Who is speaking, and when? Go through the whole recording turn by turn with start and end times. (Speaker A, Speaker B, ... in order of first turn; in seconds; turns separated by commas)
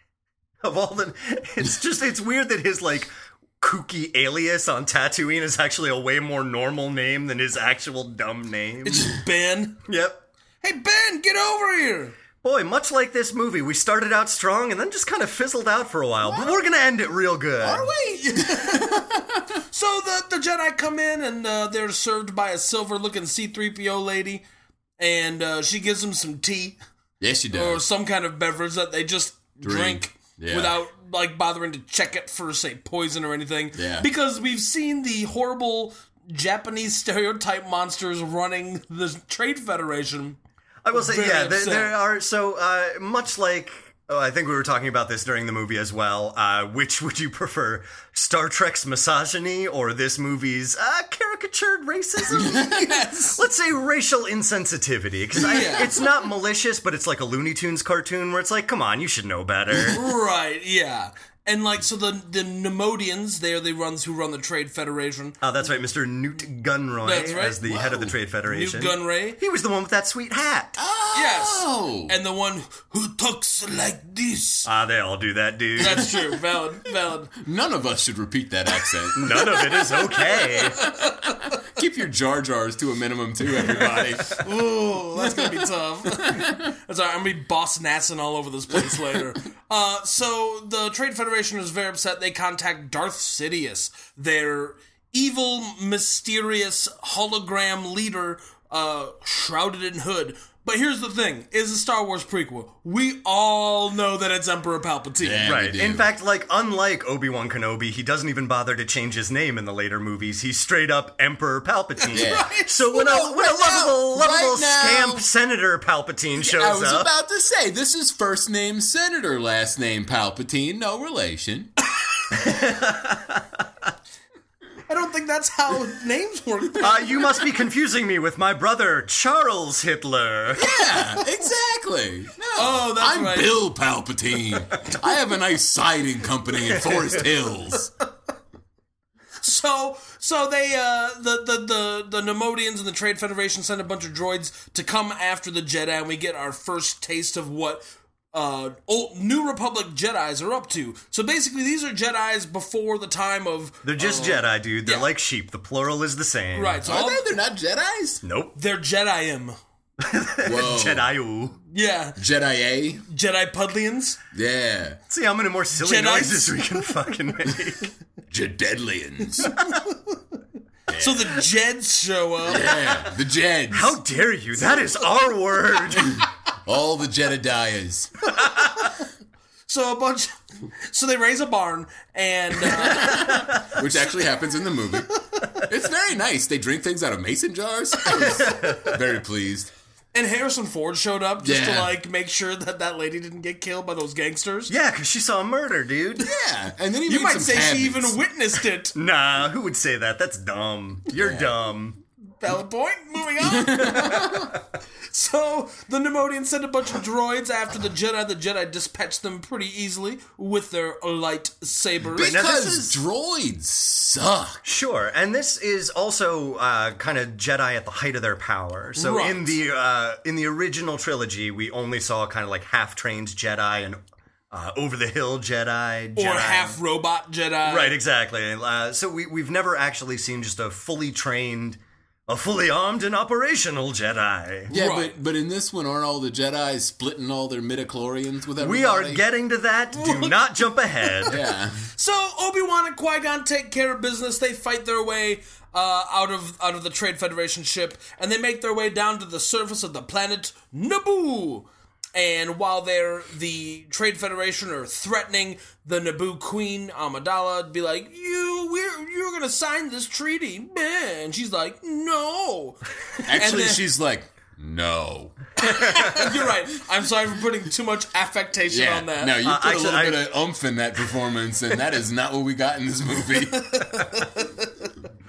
Speaker A: 0.6-9.1, Speaker B: 8.8-9.8, Speaker A: 9.8-10.2, Speaker B: 10.6-12.2, Speaker A: 12.4-17.9, Speaker C: 17.6-19.2, Speaker B: 18.0-24.4, Speaker B: 25.0-26.8, Speaker C: 27.2-27.8, Speaker B: 27.5-40.4, Speaker C: 29.6-30.8, Speaker C: 33.7-34.1, Speaker A: 40.8-52.7, Speaker B: 40.9-41.9, Speaker C: 52.3-52.9, Speaker B: 52.3-53.4, Speaker A: 53.3-60.0, Speaker B: 55.4-56.0, Speaker B: 59.9-65.4, Speaker A: 65.4-70.8, Speaker B: 67.0-67.7, Speaker C: 67.7-68.1, Speaker B: 68.5-69.4, Speaker C: 70.8-72.1, Speaker B: 71.1-74.7, Speaker A: 74.7-76.1, Speaker B: 75.8-77.3, Speaker C: 77.3-79.5, Speaker A: 79.1-80.8, Speaker B: 79.4-81.5, Speaker C: 80.8-84.5, Speaker B: 84.0-105.5, Speaker C: 85.2-86.6, Speaker C: 105.2-106.0, Speaker A: 105.4-117.1, Speaker B: 112.0-113.4, Speaker C: 112.1-112.5, Speaker C: 113.4-115.2, Speaker C: 116.4-121.7, Speaker A: 122.4-123.4, Speaker B: 124.9-127.3, Speaker A: 126.8-130.8, Speaker C: 130.5-137.9, Speaker B: 132.5-133.6, Speaker B: 139.4-155.1, Speaker A: 153.8-156.8, Speaker B: 156.5-157.3, Speaker C: 156.8-158.2, Speaker A: 158.2-158.6, Speaker B: 158.5-159.5, Speaker A: 160.0-161.6, Speaker C: 160.4-161.1, Speaker B: 161.7-162.2, Speaker C: 162.2-163.1, Speaker B: 163.1-164.2, Speaker C: 164.3-165.0, Speaker A: 165.1-167.9, Speaker B: 165.8-166.8, Speaker C: 168.3-169.5, Speaker B: 169.4-170.2, Speaker C: 170.9-171.4, Speaker B: 171.0-172.9, Speaker C: 172.5-174.0, Speaker A: 173.7-176.2, Speaker C: 176.1-178.3, Speaker B: 178.4-179.0, Speaker B: 179.7-180.3, Speaker B: 180.9-183.5, Speaker C: 182.6-189.7, Speaker A: 183.3-183.6, Speaker A: 188.2-189.0, Speaker B: 190.1-194.7, Speaker C: 191.4-191.9, Speaker A: 194.7-196.3, Speaker C: 196.2-198.2, Speaker B: 197.0-198.9, Speaker A: 198.9-202.0, Speaker C: 201.1-201.5, Speaker B: 202.4-204.3, Speaker C: 203.4-204.6, Speaker B: 205.1-212.5, Speaker C: 212.1-214.6, Speaker A: 212.2-212.9, Speaker A: 214.6-224.0, Speaker B: 218.9-219.5, Speaker A: 224.5-226.8, Speaker B: 226.2-227.9, Speaker A: 227.6-234.7, Speaker C: 234.7-239.2, Speaker B: 234.7-235.2, Speaker A: 238.6-241.3, Speaker B: 239.9-240.4, Speaker C: 241.3-241.9, Speaker B: 241.9-263.9, Speaker C: 263.2-265.4, Speaker B: 265.6-269.4, Speaker C: 268.7-274.0, Speaker A: 269.4-270.3, Speaker B: 273.5-274.7